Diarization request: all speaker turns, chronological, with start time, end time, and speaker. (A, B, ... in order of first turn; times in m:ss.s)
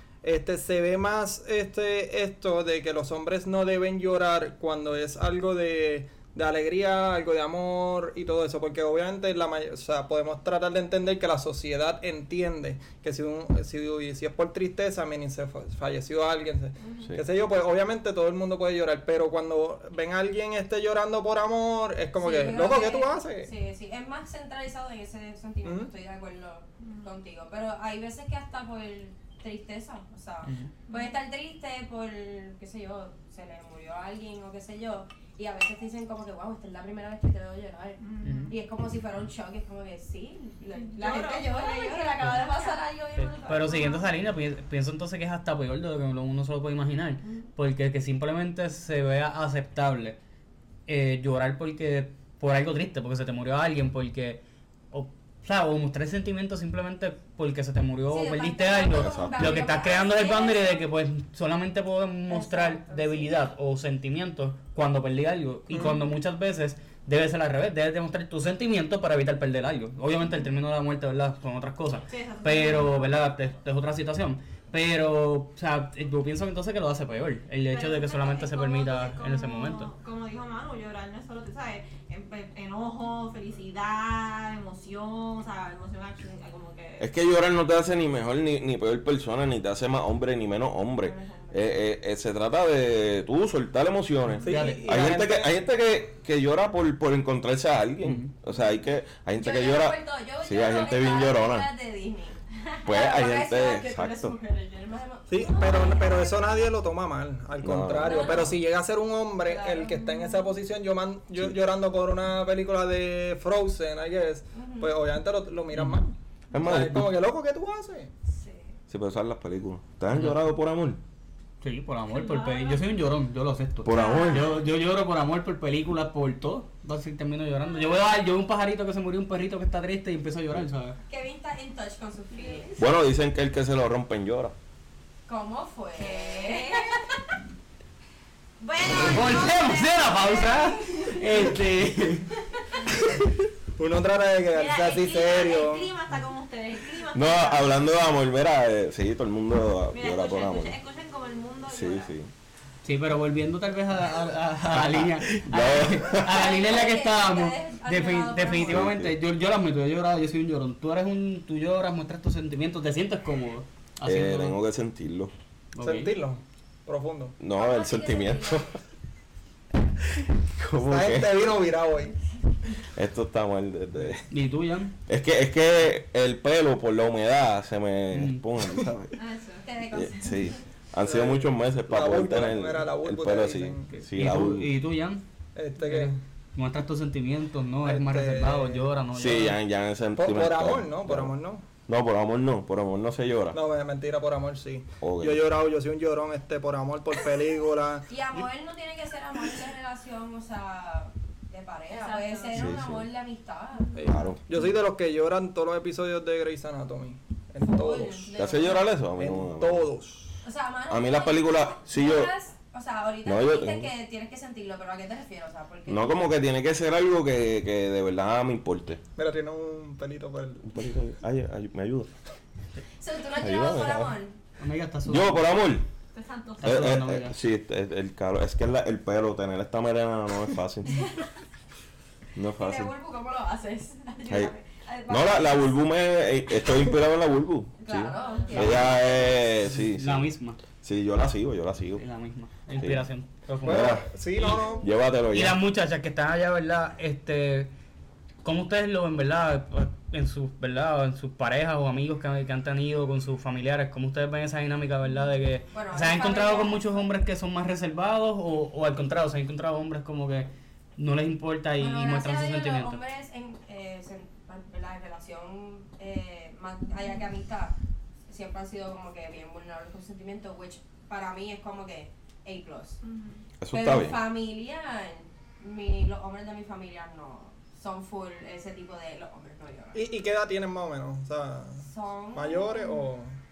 0:00.2-0:23.5 A
0:22.2-0:44.0 B
0:25.6-0:25.9 A
0:26.8-0:27.1 C
0:30.4-0:30.7 D
0:38.0-0:38.5 C
0:38.2-0:38.5 D
0:40.7-0:44.0 C
0:43.2-0:50.2 D
0:47.2-0:47.5 C
0:50.9-1:19.9 D
0:58.1-1:00.8 B
0:58.9-0:59.5 E
1:02.3-1:03.3 B
1:05.7-1:06.0 A
1:12.1-1:13.0 C
1:17.7-1:27.0 C
1:27.0-1:41.7 E
1:31.0-1:31.8 B
1:34.4-1:35.6 A
1:34.4-1:35.1 D
1:38.0-1:38.3 D
1:39.3-1:46.7 B
1:42.8-1:44.4 E
1:45.3-1:58.1 A
1:47.6-1:48.5 E
1:48.0-1:48.6 B
1:49.4-1:50.2 B
1:50.0-1:50.5 C
1:54.5-1:54.9 B
1:56.5-1:57.1 E
1:58.9-2:01.0 E
2:00.1-2:00.5 D
2:01.6-2:11.0 D
2:02.1-2:02.8 C
2:03.8-2:04.6 E
2:03.9-2:04.6 B
2:11.1-2:12.9 B
2:12.3-2:12.6 C
2:12.8-2:14.5 E
2:15.3-2:16.9 B
2:15.9-2:17.0 C
2:18.6-2:20.8 C
2:18.9-2:22.3 D
2:20.4-2:21.1 B
2:23.8-2:25.9 A
2:24.5-2:27.9 C
2:27.1-2:30.8 E
2:29.9-2:32.1 C
2:31.7-2:32.3 E
2:32.8-2:44.6 D
2:34.7-2:36.5 E
2:36.2-2:38.9 B
2:38.6-2:39.1 E
2:44.0-2:45.3 E
2:45.7-2:46.1 D
2:45.8-2:47.4 A
2:47.4-2:48.8 E
2:47.5-2:48.7 B
2:50.6-2:51.3 E
2:50.8-2:52.2 A
2:52.9-2:54.2 E
2:54.3-2:55.0 D
2:55.1-2:59.2 E
2:58.1-2:58.4 D
2:59.2-2:59.7 C
2:59.6-3:00.6 B
2:59.9-3:04.7 E
3:01.0-3:03.9 A
3:03.9-3:05.2 D
3:05.5-3:06.2 A
3:05.8-3:09.6 D
3:07.8-3:08.8 A
3:09.1-3:11.3 E
3:10.2-3:11.6 A
3:11.9-3:13.6 E
3:13.5-3:18.1 A
3:15.0-3:15.4 E
3:18.1-3:24.0 B
3:21.9-3:22.8 C
3:22.5-3:23.1 E
3:24.0-3:28.4 A
3:24.0-3:24.4 E
3:27.6-3:28.9 B
3:28.4-3:29.8 E
3:29.0-3:30.4 A
3:30.4-3:36.1 B
3:30.9-3:32.3 E
3:33.2-3:33.9 E
3:35.9-3:39.0 E
3:39.2-3:40.7 A
3:40.6-3:42.1 E
3:43.0-3:44.4 B
3:43.4-3:44.2 E
3:44.6-3:45.4 D
3:45.1-3:45.9 E
3:46.1-3:46.7 C
3:46.6-3:47.4 D
3:46.6-3:51.0 E
3:52.4-3:52.9 E
3:52.6-3:55.7 B
3:54.3-3:54.5 E
3:55.1-4:00.3 E
3:56.6-3:56.9 B
3:57.8-3:59.4 B
3:58.2-3:58.7 C
3:58.5-3:59.0 D
3:59.6-4:00.6 D
4:00.8-4:02.0 E
4:02.0-4:04.6 D
4:03.6-4:04.9 A
4:03.6-4:04.0 E
4:04.8-4:05.6 E
4:05.3-4:07.7 D
4:08.4-4:23.0 D
4:15.7-4:16.8 B
4:21.8-4:27.7 B
4:28.3-4:33.0 B
4:33.0-4:33.4 C
4:33.6-4:34.2 E
4:33.7-4:40.0 B
4:39.9-4:43.3 A
4:41.8-4:43.0 B